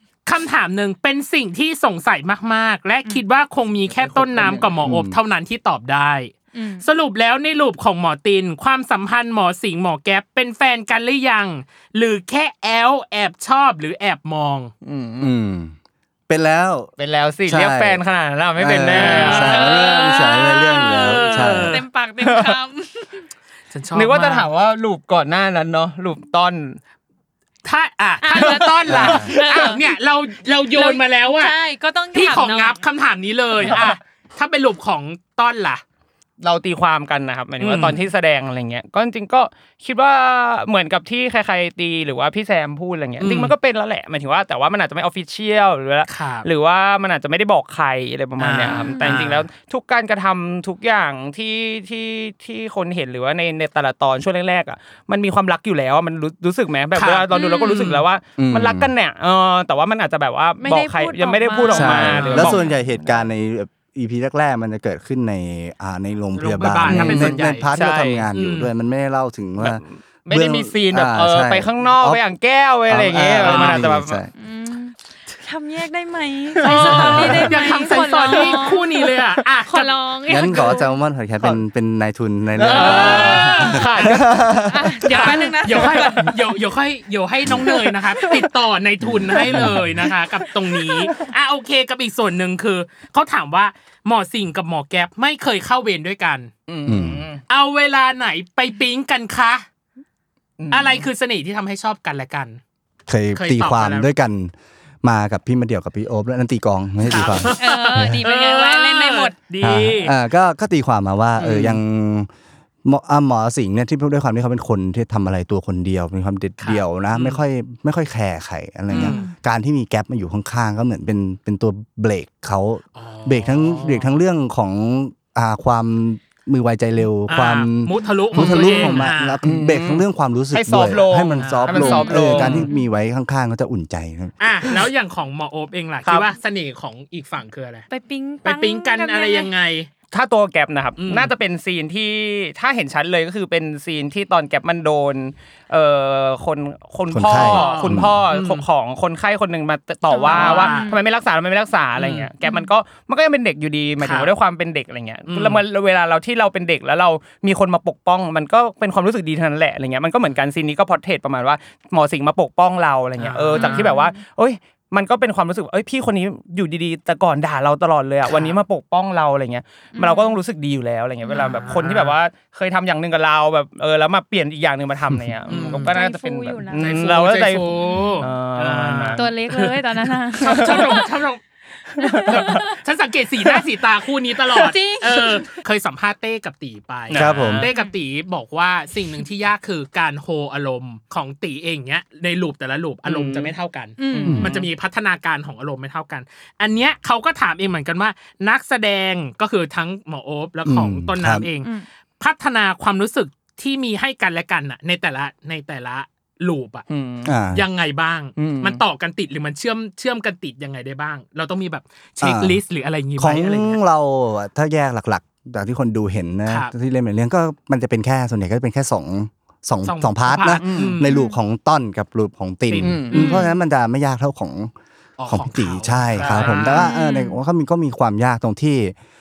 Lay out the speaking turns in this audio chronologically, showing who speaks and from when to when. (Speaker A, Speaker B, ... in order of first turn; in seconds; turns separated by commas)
Speaker A: 0.3-14.7, Speaker B: 3.9-4.8, Speaker C: 4.8-5.2, Speaker D: 6.5-6.9, Speaker B: 14.8-15.3, Speaker C: 15.2-15.7, Speaker C: 16.3-16.9, Speaker B: 17.0-19.6, Speaker C: 17.5-18.0, Speaker C: 18.6-21.8, Speaker A: 18.9-21.8, Speaker D: 19.3-23.3, Speaker B: 22.2-22.6, Speaker A: 23.7-24.5, Speaker B: 23.9-26.8, Speaker A: 27.6-31.6, Speaker D: 28.2-29.9, Speaker C: 28.9-29.3, Speaker D: 30.7-32.8, Speaker A: 32.1-35.8, Speaker B: 36.4-63.2, Speaker A: 37.6-38.0, Speaker A: 43.2-43.5, Speaker A: 46.1-46.5, Speaker A: 48.4-49.5, Speaker D: 48.6-49.2, Speaker A: 57.0-58.0, Speaker D: 57.3-57.9, Speaker C: 58.4-58.9, Speaker D: 60.6-62.7, Speaker C: 61.7-72.2, Speaker A: 62.0-62.6, Speaker A: 66.3-67.7, Speaker B: 66.9-68.3, Speaker A: 68.3-68.7, Speaker B: 69.6-74.2, Speaker C: 72.9-74.3, Speaker A: 73.4-73.8, Speaker D: 74.3-79.1, Speaker A: 76.6-80.0, Speaker C: 76.9-77.5, Speaker D: 79.7-80.9, Speaker C: 80.3-85.3, Speaker B: 82.6-83.6, Speaker A: 82.6-84.4, Speaker D: 82.9-86.4, Speaker A: 85.0-96.5, Speaker C: 89.0-89.9, Speaker B: 96.7-97.4, Speaker C: 96.9-97.2, Speaker A: 97.5-99.6, Speaker B: 100.6-101.0, Speaker A: 100.7-102.6, Speaker C: 103.1-108.2, Speaker A: 103.3-104.1, Speaker A: 107.0-110.1, Speaker D: 107.5-109.4, Speaker C: 109.6-112.3, Speaker A: 111.4-111.8, Speaker C: 112.8-134.3, Speaker A: 116.6-117.4, Speaker A: 118.9-119.3, Speaker D: 118.9-119.3, Speaker A: 123.0-124.2, Speaker A: 127.3-129.4, Speaker B: 128.4-132.7, Speaker A: 131.4-132.6, Speaker D: 131.8-132.9, Speaker A: 134.4-137.9, Speaker B: 136.1-136.3, Speaker D: 137.9-139.5, Speaker A: 138.4-139.9, Speaker B: 140.1-179.2, Speaker A: 141.0-141.3, Speaker C: 147.1-148.1, Speaker A: 147.3-148.6, Speaker D: 150.1-151.0, Speaker A: 150.3-150.9, Speaker A: 152.0-152.3, Speaker D: 152.4-152.7, Speaker A: 154.0-154.3, Speaker A: 155.3-155.6, Speaker A: 163.2-163.9, Speaker D: 163.5-164.2, Speaker A: 168.3-168.6, Speaker D: 169.9-170.4, Speaker D: 171.3-171.7, Speaker A: 171.3-172.2, Speaker A: 175.5-175.9, Speaker D: 175.7-177.1, Speaker A: 176.7-181.4, Speaker D: 177.7-178.3, Speaker D: 179.1-181.2, Speaker B: 180.4-181.0, Speaker B: 182.0-182.6, Speaker D: 182.0-182.8, Speaker A: 182.3-201.7, Speaker D: 184.5-185.4, Speaker B: 187.1-187.7, Speaker C: 187.1-187.7, Speaker B: 193.1-193.5, Speaker D: 194.0-194.5, Speaker B: 194.1-194.7, Speaker C: 194.2-194.5, Speaker C: 200.6-201.4, Speaker A: 202.2-206.9, Speaker B: 206.9-207.3, Speaker C: 207.2-207.6, Speaker A: 207.5-213.8, Speaker B: 208.4-208.8, Speaker C: 212.2-212.6, Speaker C: 213.2-224.7, Speaker A: 216.5-216.7, Speaker A: 219.8-221.2, Speaker B: 220.6-221.0, Speaker D: 221.1-221.4, Speaker A: 222.7-223.5, Speaker B: 222.8-223.4, Speaker D: 223.1-223.5, Speaker A: 225.2-226.9, Speaker C: 225.3-228.9, Speaker B: 226.2-226.6, Speaker D: 226.7-227.4